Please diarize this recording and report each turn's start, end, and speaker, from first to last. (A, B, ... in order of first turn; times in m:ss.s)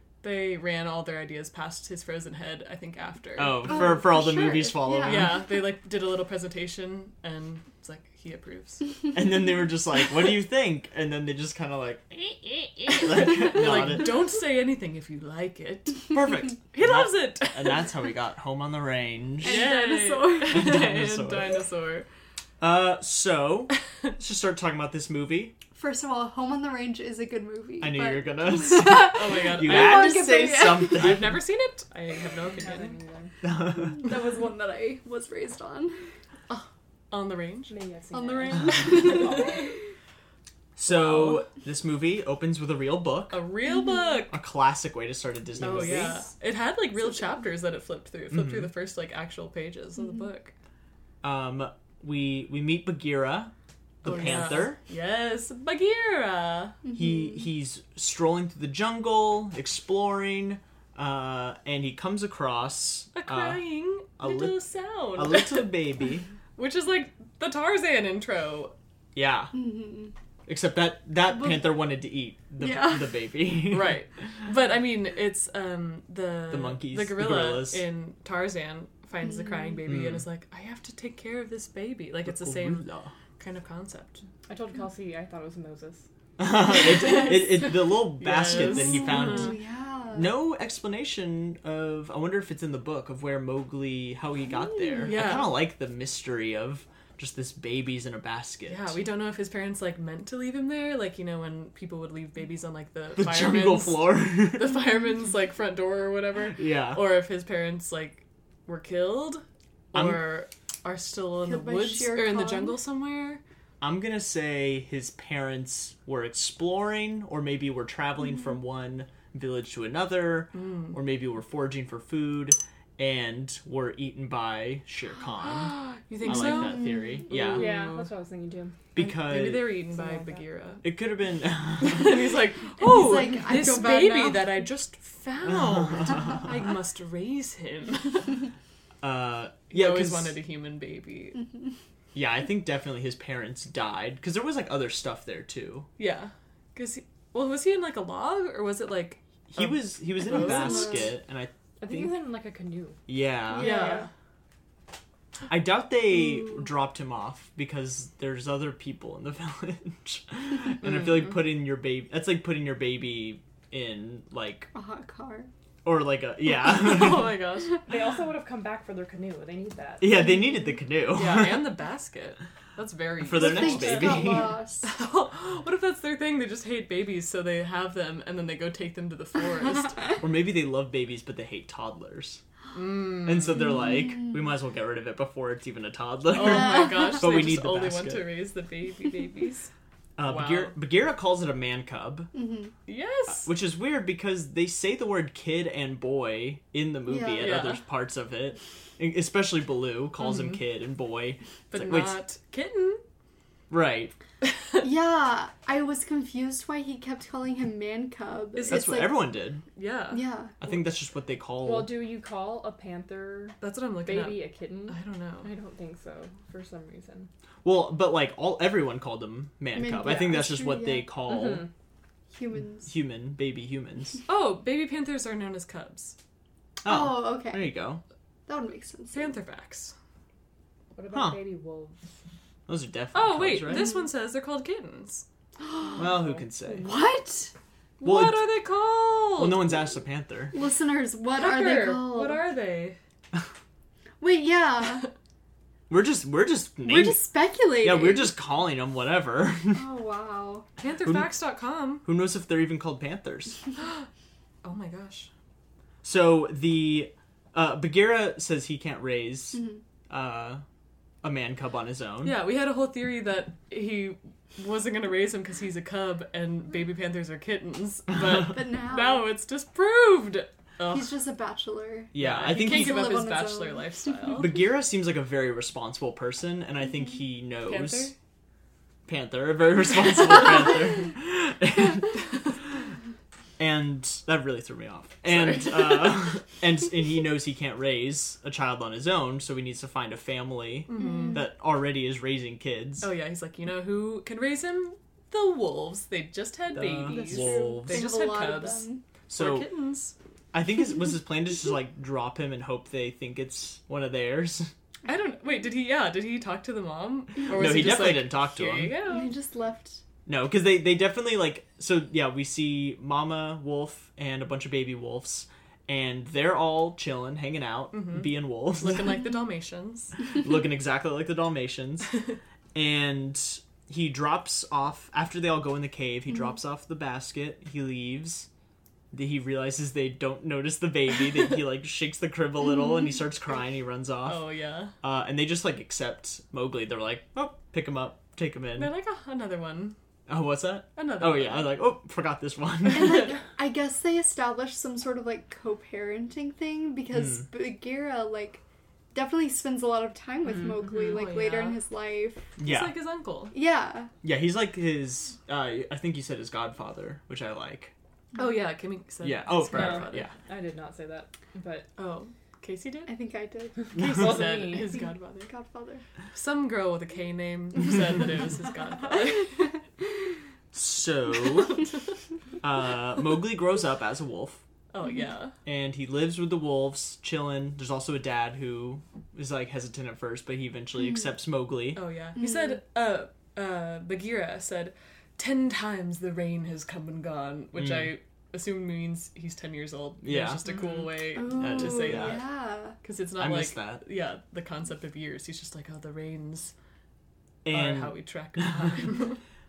0:00.2-0:04.0 A
0:03.4-0:05.4 B
0:03.6-0:05.4 C
0:05.0-0:08.8 A
0:09.1-0:14.3 B
0:13.1-0:17.9 A
0:16.1-0:19.8 B
0:19.4-0:20.7 C
0:19.4-0:22.1 A
0:20.4-0:21.5 B
0:22.6-0:25.5 B
0:25.7-0:31.2 C
0:27.8-0:31.4 B
0:29.0-0:33.0 A
0:32.4-0:33.3 D
0:33.4-0:34.0 B
0:33.8-0:36.0 C
0:36.5-0:37.7 A
0:37.7-0:39.8 D
0:38.1-0:39.8 C
0:38.9-0:39.4 A
0:40.8-0:43.4 B
0:40.8-0:41.4 A
0:43.3-0:44.4 A
0:43.6-0:44.2 C
0:44.3-0:46.3 B
0:45.6-0:50.5 A
0:48.3-0:48.7 B
0:51.2-0:54.8 B
0:54.0-0:56.8 A
0:56.8-0:57.4 C
0:56.9-1:04.6 B
1:03.1-1:05.8 A
1:05.1-1:06.3 B
1:06.6-1:08.7 A
1:09.1-1:09.5 B
1:09.5-1:10.1 C
1:10.5-1:14.0 B
1:11.3-1:11.7 C
1:12.6-1:13.2 C
1:13.7-1:22.9 A
1:16.5-1:17.8 B
1:19.3-1:19.8 C
1:19.8-1:20.2 B
1:22.2-1:23.1 B
1:23.4-1:24.2 A
1:24.5-1:26.1 D
1:26.4-1:29.6 B
1:26.7-1:29.5 A
1:28.5-1:30.3 C
1:30.1-1:39.0 B
1:34.6-1:35.1 C
1:35.0-1:35.6 A
1:38.7-1:53.4 A
1:43.2-1:44.7 B
1:46.5-1:47.1 B
1:49.9-1:50.2 B
1:51.4-1:52.8 C
1:53.8-2:07.7 B
2:00.5-2:01.0 A
2:05.4-2:08.1 A
2:06.3-2:07.2 C
2:07.5-2:08.8 D
2:08.9-2:09.8 B
2:09.0-2:10.8 A
2:10.8-2:12.4 B
2:11.8-2:18.4 A
2:12.8-2:14.7 C
2:15.4-2:16.5 B
2:19.0-2:20.4 B
2:19.7-2:21.4 A
2:21.4-2:21.7 C
2:22.1-2:25.9 B
2:26.0-2:31.1 A
2:29.5-2:32.1 B
2:30.3-2:31.1 C
2:31.8-2:33.0 D
2:33.1-2:33.9 B
2:33.5-2:34.1 C
2:33.6-2:34.1 A
2:35.5-2:44.7 B
2:44.7-2:45.5 C
2:45.8-2:47.4 B
2:46.6-2:47.8 A
2:47.8-2:50.0 D
2:50.0-2:51.7 B
2:50.1-2:50.8 C
2:51.1-2:54.3 A
2:53.2-2:54.5 B
2:53.3-2:54.9 C
2:54.8-3:00.2 A
3:00.2-3:02.4 B
3:02.7-3:03.8 A
3:03.2-3:08.3 B
3:04.0-3:04.3 C
3:06.3-3:09.7 A
3:06.4-3:07.2 C
3:10.2-3:12.3 B
3:10.2-3:10.7 A
3:12.3-3:12.7 C
3:12.9-3:13.5 A
3:13.3-3:22.2 B
3:17.1-3:17.5 C
3:17.4-3:17.8 A
3:20.2-3:20.6 A
3:21.7-3:23.0 A
3:23.7-3:24.1 B
3:24.4-3:24.8 A
3:24.8-3:29.2 C
3:28.6-3:29.0 A
3:28.7-3:29.6 B
3:29.7-3:30.3 A
3:30.1-3:30.6 C
3:30.6-3:32.0 B
3:31.6-3:37.3 D
3:33.6-3:35.5 A
3:37.6-3:41.7 B
3:39.7-3:41.1 C
3:41.2-3:41.7 D
3:42.3-3:42.9 C
3:42.8-3:44.2 B
3:44.3-3:46.2 A
3:46.8-3:48.0 B
3:46.8-3:47.7 C
3:48.4-3:49.4 C
3:49.1-3:49.9 A
3:51.0-3:52.1 D
3:51.1-3:51.4 B
3:52.7-3:53.9 B
3:53.1-3:55.2 A
3:55.6-3:56.1 C
3:56.0-3:56.9 B
3:56.7-3:57.5 C
3:58.0-3:59.8 A
3:58.0-3:58.5 B
3:59.4-4:00.5 B
4:00.5-4:02.5 C
4:01.3-4:03.0 A
4:04.2-4:05.1 C
4:05.9-4:07.2 B
4:06.8-4:08.3 C
4:07.8-4:09.9 B
4:09.7-4:10.7 C
4:10.8-4:12.0 A
4:11.0-4:11.4 B
4:12.0-4:13.6 B
4:13.8-4:14.1 A
4:14.6-4:15.3 A
4:16.0-4:20.6 B
4:19.5-4:19.8 C
4:21.2-4:22.4 B
4:22.2-4:31.1 A
4:28.5-4:29.3 C
4:30.9-4:34.1 C
4:32.1-4:33.1 B
4:32.2-4:34.5 A
4:34.4-4:38.1 B
4:37.6-4:38.1 A
4:39.0-4:42.4 B
4:43.6-4:53.1 B
4:45.2-4:46.2 A
4:50.9-4:51.4 A
4:50.9-4:51.4 C
4:53.0-5:00.1 A
4:56.7-4:58.1 B
4:57.0-4:59.0 C
4:59.3-4:59.7 B
5:00.5-5:04.7 B
5:05.0-5:09.3 A
5:07.5-5:09.0 B
5:09.0-5:10.0 C
5:10.2-5:19.2 B
5:17.9-5:20.1 A
5:20.4-5:22.1 B
5:22.7-5:28.5 B
5:29.1-5:34.4 B
5:34.2-5:34.9 A
5:35.0-5:38.9 B
5:38.8-5:40.0 A
5:40.3-5:43.4 B
5:40.9-5:41.8 A
5:42.9-5:48.6 C
5:47.2-5:47.4 B
5:49.1-5:52.5 C
5:50.7-5:51.8 A
5:52.6-5:53.0 B
5:52.6-5:53.5 A
5:53.5-5:54.1 C
5:54.2-5:57.9 B
5:58.3-6:00.3 A
5:59.2-6:00.3 B
5:59.7-6:01.9 D
6:02.0-6:03.1 A
6:03.1-6:03.9 C
6:03.8-6:05.0 D
6:03.9-6:05.5 A
6:05.4-6:06.0 C
6:06.3-6:09.7 A
6:10.7-6:11.8 B
6:12.6-6:14.6 B
6:14.9-6:15.5 A
6:15.6-6:22.0 B
6:21.9-6:32.4 A
6:22.4-6:22.8 C
6:27.8-6:28.1 B
6:30.2-6:30.6 B
6:31.3-6:33.0 C
6:31.4-6:32.4 B
6:33.0-6:36.7 A
6:33.4-6:34.0 B
6:37.6-6:38.2 B
6:37.7-6:39.4 A